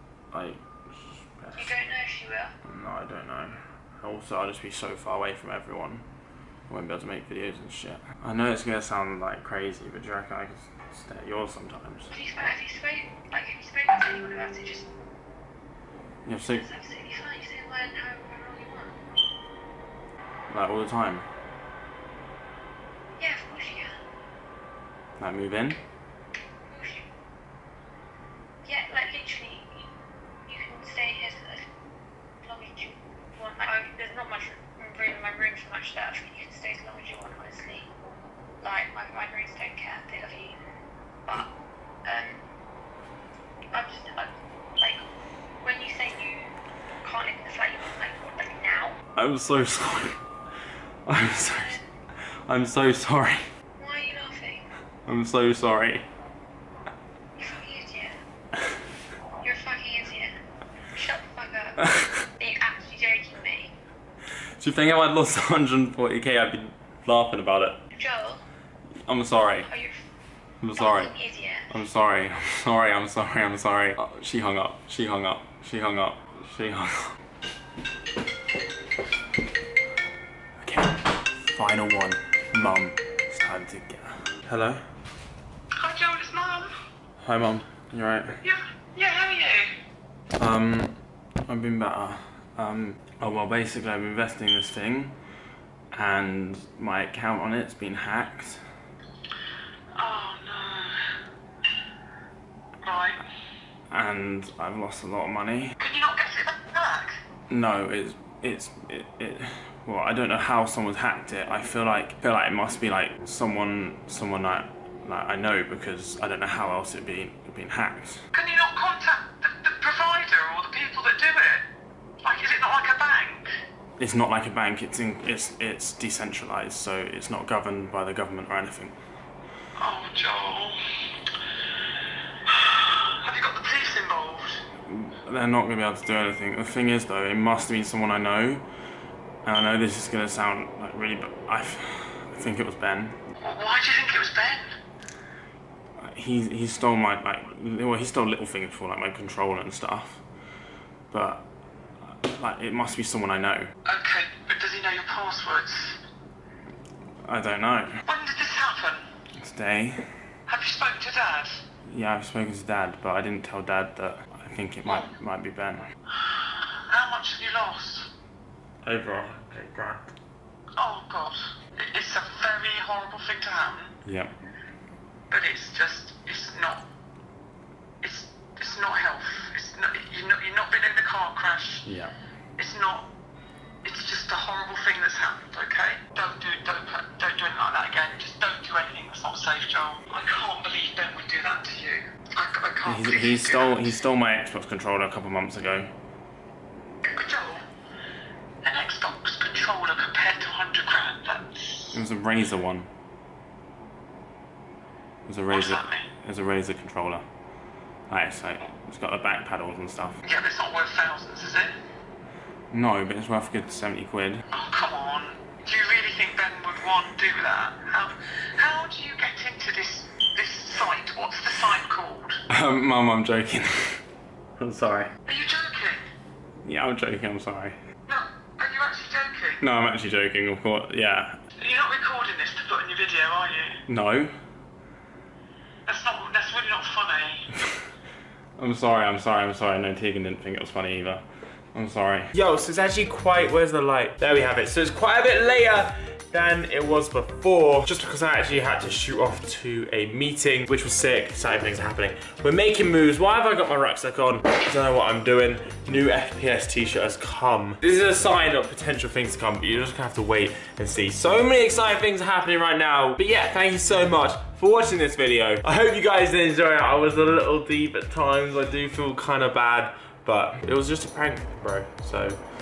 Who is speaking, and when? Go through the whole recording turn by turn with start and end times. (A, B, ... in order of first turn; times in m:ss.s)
0:00.3-0:01.8 A
0:01.6-0:02.5 B
0:02.6-0:06.0 A
0:06.7-0:12.1 A
0:12.1-0:14.9 B
0:16.2-0:16.6 A
0:16.6-0:19.0 B
0:20.5-0:21.2 A
0:23.2-0:23.9 B
0:25.2-0:25.8 A
0:26.7-0:27.1 B
0:28.6-0:29.8 B
0:30.5-0:31.6 B
0:32.4-0:37.9 B
0:38.6-0:40.6 B
0:42.0-0:42.4 B
0:43.7-0:45.0 B
0:45.6-0:46.5 B
0:47.0-0:49.0 B
0:49.2-0:50.2 A
0:51.1-0:51.8 A
0:51.4-0:51.8 B
0:52.5-0:53.4 A
0:53.8-0:54.6 B
0:55.1-0:56.0 A
0:57.4-0:58.2 B
0:59.4-1:00.3 B
1:00.9-1:01.8 B
1:02.4-1:03.7 B
1:04.6-1:07.8 A
1:07.9-1:08.4 B
1:09.1-1:09.7 A
1:09.6-1:10.0 B
1:10.6-1:11.1 A
1:10.8-1:11.7 B
1:11.7-1:17.1 A
1:20.6-1:20.9 A
1:21.5-1:24.8 A
1:25.8-1:26.7 C
1:27.2-1:28.3 A
1:28.4-1:29.7 C
1:30.4-1:35.1 A
1:35.9-1:38.6 A
1:40.0-1:40.9 C
1:42.8-1:43.2 C
1:43.9-1:45.7 A
1:45.8-1:47.2 C
1:47.5-1:58.2 A
1:58.3-2:01.6 C
2:02.2-2:03.5 C
2:04.0-2:08.9 A
2:09.8-2:10.8 C
2:12.5-2:14.6 C
2:14.9-2:18.6 A
2:19.4-2:23.2 A
2:23.4-2:24.7 C
2:26.0-2:30.2 A
2:31.1-2:31.4 A
2:32.1-2:33.7 A
2:33.8-2:36.0 C
2:37.2-2:37.9 A
2:38.0-2:39.0 C
2:39.4-2:40.0 A
2:40.5-2:41.6 C
2:41.9-2:45.8 A
2:46.9-2:48.1 C
2:48.8-2:50.1 A
2:50.8-2:53.9 C
2:54.0-2:54.3 A
2:55.3-2:56.8 C
2:58.0-3:01.8 C
3:01.8-3:02.1 A
3:02.6-3:03.1 C
3:03.8-3:13.8 C
3:12.8-3:15.9 A
3:17.1-3:17.6 C
3:18.6-3:22.0 C
3:21.9-3:22.9 A
3:25.3-3:27.2 A
3:25.5-3:26.1 C
3:28.1-3:30.2 A
3:30.2-3:31.7 C
3:32.7-3:34.4 A
3:34.5-3:42.4 C
3:42.5-3:44.0 A
3:44.6-3:45.1 A
3:45.2-3:46.0 C
3:46.6-3:47.8 A
3:48.1-3:49.6 C
3:49.6-3:51.4 A
3:51.6-3:53.8 C
3:53.9-3:54.3 A
3:55.9-3:57.4 C
3:58.6-4:01.2 A
4:01.7-4:32.4 A